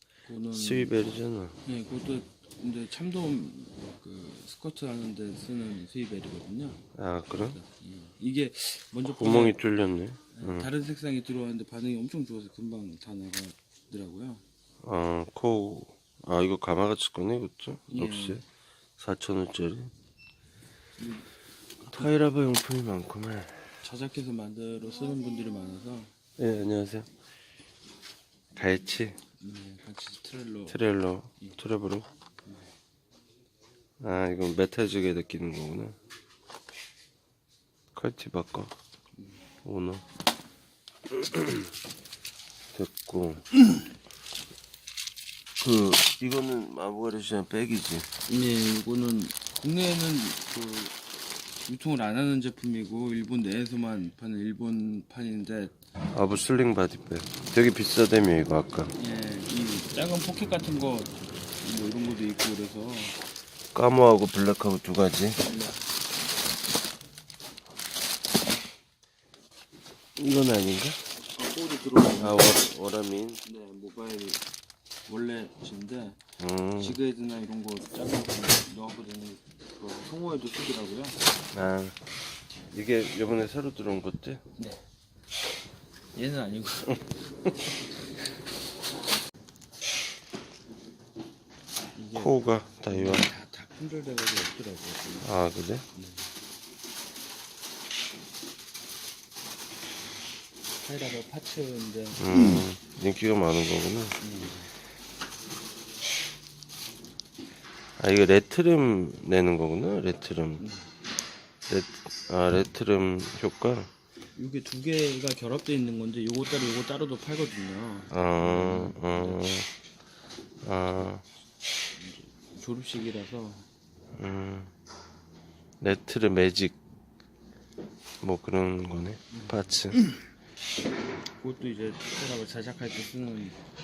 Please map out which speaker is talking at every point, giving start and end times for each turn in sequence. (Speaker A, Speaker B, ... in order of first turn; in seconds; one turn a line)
Speaker A: 0.3-1.0
Speaker B: 0.5-1.6
Speaker A: 1.6-6.8
Speaker B: 7.0-7.6
Speaker A: 7.3-9.6
Speaker B: 9.1-10.7
Speaker A: 10.3-14.4
Speaker B: 14.8-18.4
Speaker A: 17.9-18.4
Speaker B: 19.0-19.9
Speaker A: 21.0-21.3
Speaker B: 21.9-23.8
Speaker A: 23.8-26.1
Speaker B: 26.4-27.1
Speaker B: 28.5-29.2
Speaker A: 29.4-30.8
Speaker B: 30.7-32.1
Speaker A: 32.4-32.7
Speaker B: 34.0-36.0
Speaker B: 38.0-38.7
Speaker A: 39.2-39.4
Speaker B: 39.6-40.0
Speaker B: 41.1-41.7
Speaker B: 42.7-43.4
Speaker B: 45.6-48.1
Speaker A: 48.3-51.0
Speaker A: 51.6-55.7
Speaker B: 56.1-58.9
Speaker A: 59.0-63.2
Speaker B: 63.7-65.4
Speaker A: 65.4-66.0
Speaker B: 70.2-71.0
Speaker A: 71.4-72.7
Speaker B: 72.2-73.4
Speaker A: 73.5-74.4
Speaker A: 75.1-76.2
Speaker B: 76.4-77.0
Speaker A: 76.8-81.2
Speaker B: 81.5-82.0
Speaker B: 82.7-84.4
Speaker A: 84.6-84.8
Speaker A: 86.2-87.1
Speaker A: 92.0-95.3
Speaker B: 92.2-93.3
Speaker B: 95.2-95.8
Speaker A: 95.9-96.3
Speaker A: 100.8-102.6
Speaker B: 102.2-104.2
Speaker A: 104.2-104.7
Speaker B: 108.0-110.6
Speaker A: 110.6-110.9
Speaker B: 111.7-113.9
Speaker A: 114.4-119.4
Speaker B: 118.1-119.7
Speaker B: 120.6-121.2
Speaker A: 122.0-123.7
Speaker B: 124.2-124.7
Speaker B: 125.8-126.8
Speaker B: 128.2-130.0
Speaker A: 129.3-130.1
Speaker A: 131.4-133.6